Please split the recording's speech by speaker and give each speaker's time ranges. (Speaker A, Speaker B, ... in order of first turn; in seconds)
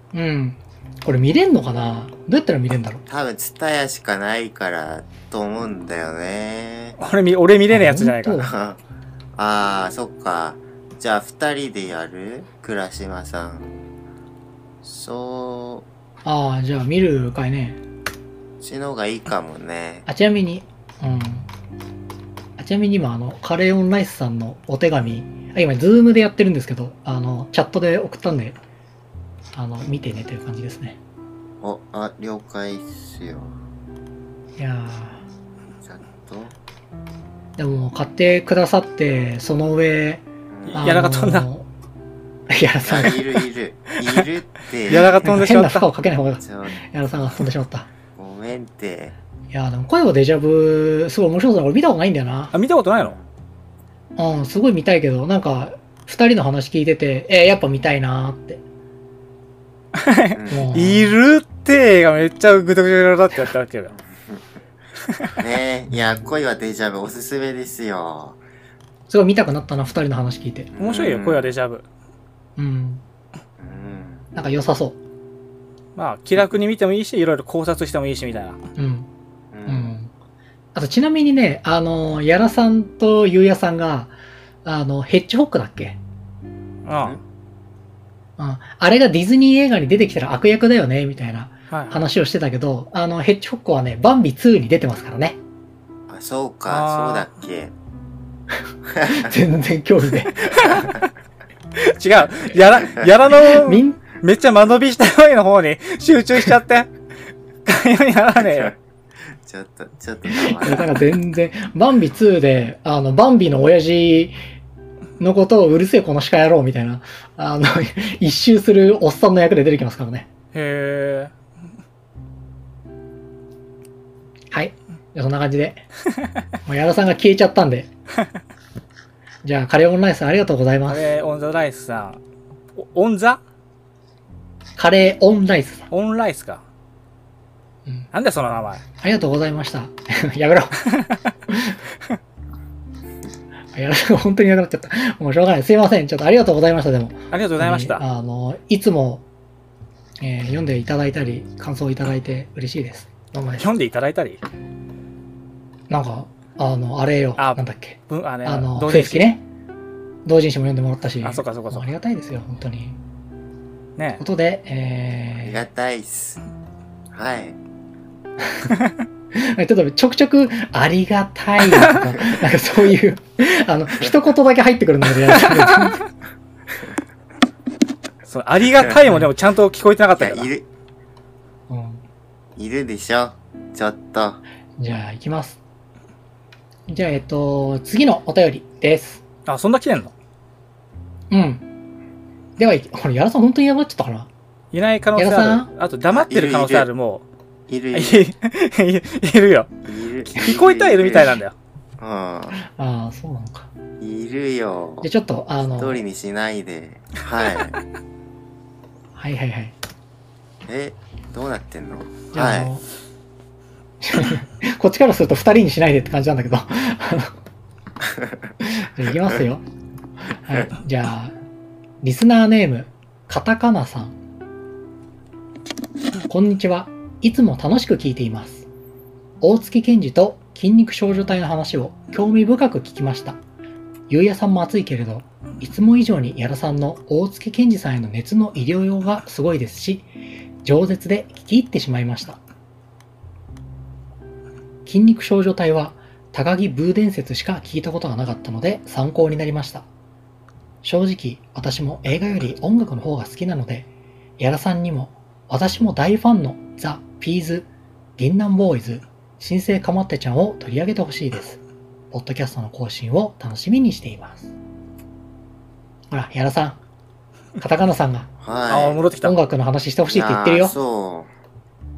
Speaker A: 0.1-3.0, 7.7-8.5, 16.2-17.8, 20.1-21.5, 22.6-28.6, 29.6-31.0, 34.6-35.2, 37.6-41.7, 42.5-43.2, 45.2-47.9, 49.5-52.5, 54.2-58.6, 60.5-61.2, 69.1-70.7, 72.6-73.0, 74.3-75.0, 78.8-79.1, 79.7-80.1, 80.8-84.1, 84.7-86.0, 88.4-95.4, 99.0-100.6, 103.5-104.0, 110.4-114.4, 115.2-120.3, 124.5-125.8, 126.7-127.9, 129.4-131.1, 134.8-135.9, 139.0-140.9, 141.5-141.8, 143.7-149.2, 150.2-153.7, 155.9-159.4, 160.3-163.0, 164.2-165.6, 168.4-168.7, 169.3-176.0, 181.7-182.0, 184.8-185.6, 186.9-189.2, 191.3-191.7, 192.6-194.3, 195.2-195.7, 202.5-203.7, 205.0-206.0, 209.2-209.8, 212.3-212.8, 214.0-217.3, 218.6-219.6, 220.3-221.3, 222.0-224.2, 226.3-228.7, 229.4-233.4, 234.1-240.1, 240.6-242.4, 244.9-249.9, 250.8-261.6, 262.1-264.5, 266.1-266.8, 267.6-268.3, 269.2-270.8
Speaker B: 3.1-7.0, 8.4-8.8, 9.4-13.8, 14.8-15.9, 18.6-20.1, 31.6-33.6, 35.8-36.6, 40.5-40.9, 42.8-45.2, 46.4-47.5, 48.1-49.1, 60.3-60.7, 65.3-68.4, 70.7-71.5, 73.6-74.3, 79.5-79.9, 96.1-97.7, 98.9-99.4, 108.4-108.8, 109.4-111.0, 165.4-166.4, 167.1-167.6, 180.2-180.7, 182.6-184.4, 196.1-196.9, 197.7-198.3, 199.8-201.4, 202.0-202.6, 204.0-205.1, 205.6-207.8, 210.7-212.7, 218.0-218.5, 268.4-269.0, 270.1-271.3
Speaker C: 7.0-8.5, 40.7-41.5, 44.9-45.9, 52.5-53.2, 59.9-64.0, 65.1-65.4, 70.8-71.8, 76.0-78.6, 86.8-87.2, 91.7-92.0, 96.7-97.3, 100.5-101.0, 101.8-106.9, 107.7-108.7, 120.5-121.3, 130.9-132.2, 132.8-133.4, 135.9-136.6, 138.1-138.8, 147.3-148.0, 153.6-154.4, 157.4-159.3, 161.2-161.9, 171.7-171.9, 175.3-176.0, 178.3-180.5, 189.5-190.1, 194.7-197.3, 197.9-199.8, 200.3-201.5, 268.7-269.4